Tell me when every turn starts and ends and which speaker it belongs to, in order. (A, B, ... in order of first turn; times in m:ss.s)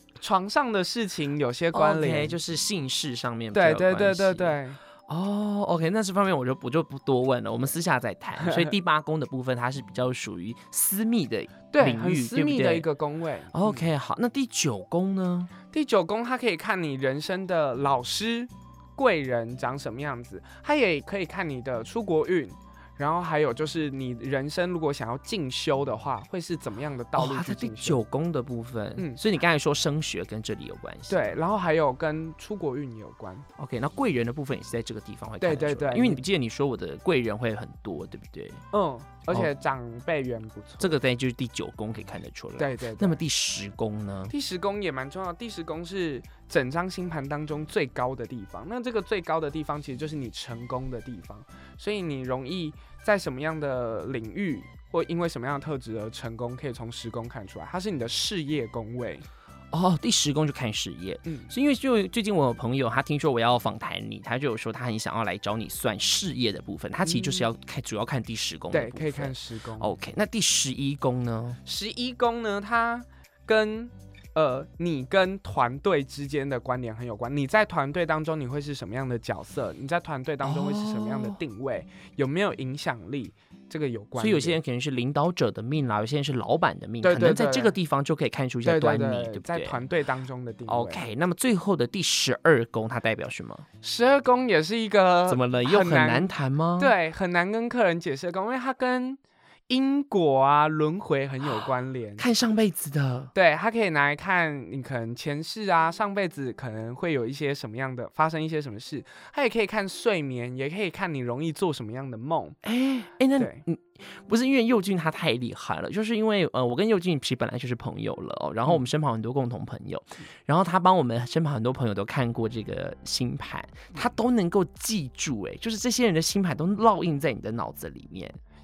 0:00.2-0:02.4 A
0:01.7-0:12.9 B
0:03.5-0:04.8 A
0:08.4-0:08.7 A
0:11.7-0:13.9 A
0:13.5-0:15.5 B
0:15.7-0:28.0 A
0:27.2-0:31.4 B
0:31.1-0:33.4 A
0:33.6-0:38.6 B
0:35.4-0:36.2 A
0:38.7-0:40.9 A
0:40.8-0:44.3 B
0:42.6-0:43.2 A
0:44.3-0:59.2 A
0:59.7-1:11.6 B
1:07.0-1:07.5 A
1:08.7-1:09.9 A
1:11.6-1:24.6 A
1:20.4-1:21.4 B
1:24.2-1:29.8 B
1:27.0-1:27.7 A
1:28.6-1:31.0 A
1:30.7-1:33.6 B
1:33.8-1:42.2 A
1:35.3-1:36.9 B
1:42.2-1:43.3 B
1:43.3-1:52.6 A
1:52.6-2:08.4 B
1:53.4-1:53.6 A